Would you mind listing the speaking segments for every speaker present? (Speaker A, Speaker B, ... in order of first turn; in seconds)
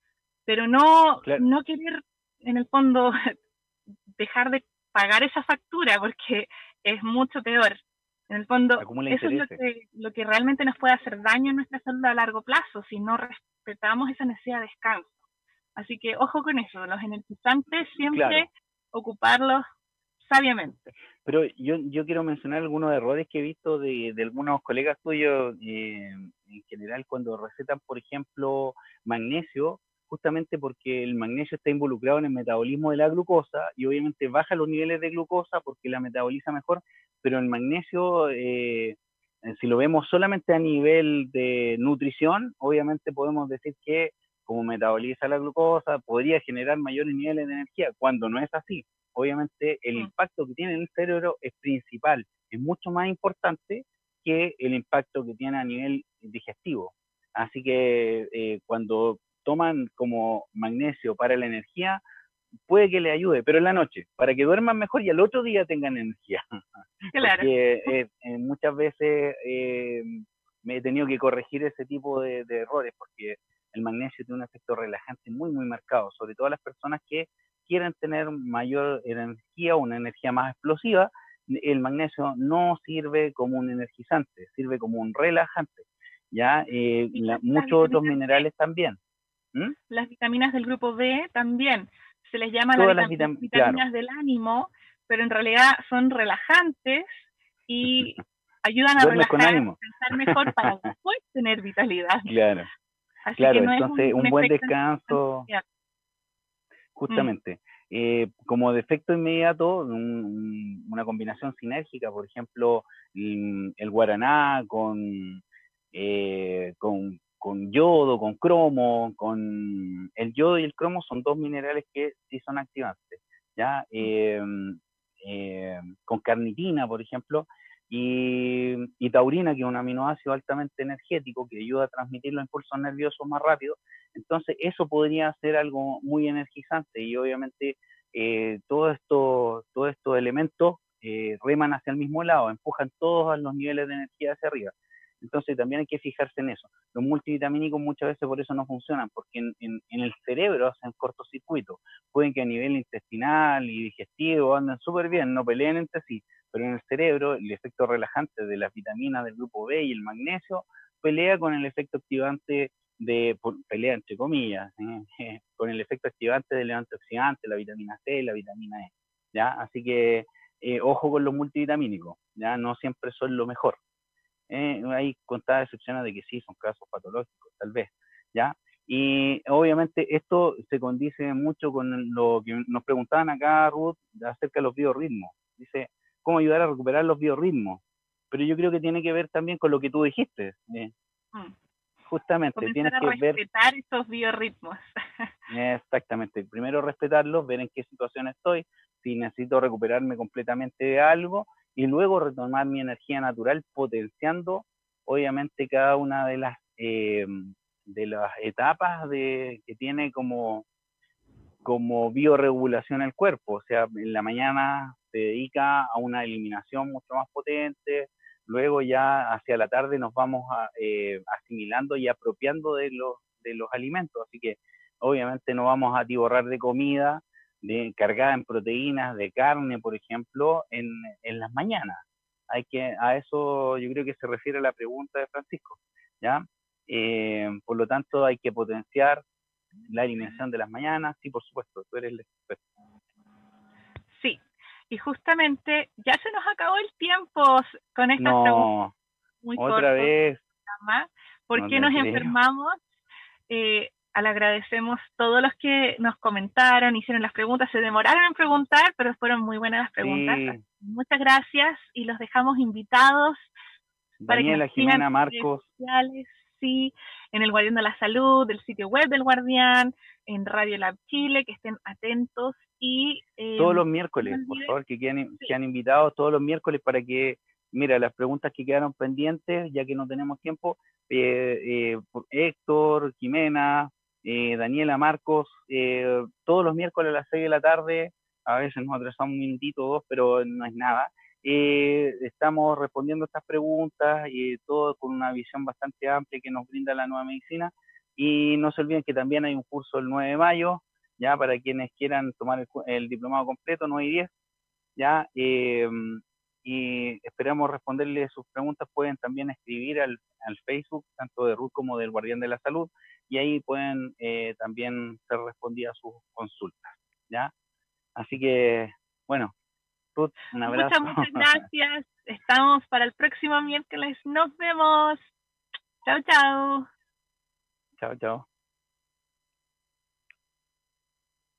Speaker A: 0.5-3.3, 4.2-15.1, 15.8-19.6, 20.2-20.9, 67.1-67.5, 87.1-88.4, 89.9-97.1, 97.7-102.3, 103.2-105.6, 192.6-195.3, 244.2-248.7, 249.4-250.1, 250.7-252.8, 253.5-263.5, 264.3-274.7, 320.6-325.2, 326.0-326.9
Speaker B: 8.8-9.6, 18.1-18.5, 21.2-62.0, 62.7-89.0, 92.7-93.8, 97.8-98.2, 99.0-100.9, 102.2-102.7, 103.3-105.5, 106.9-115.4, 115.9-173.8, 174.5-190.9, 192.1-193.4, 195.5-210.7, 211.6-239.2, 239.9-242.6, 248.2-248.9, 249.6-250.4, 251.5-252.3, 260.0-260.6, 264.2-265.6, 273.6-304.3, 304.9-317.5, 318.1-319.5, 320.1-321.6, 328.0-328.4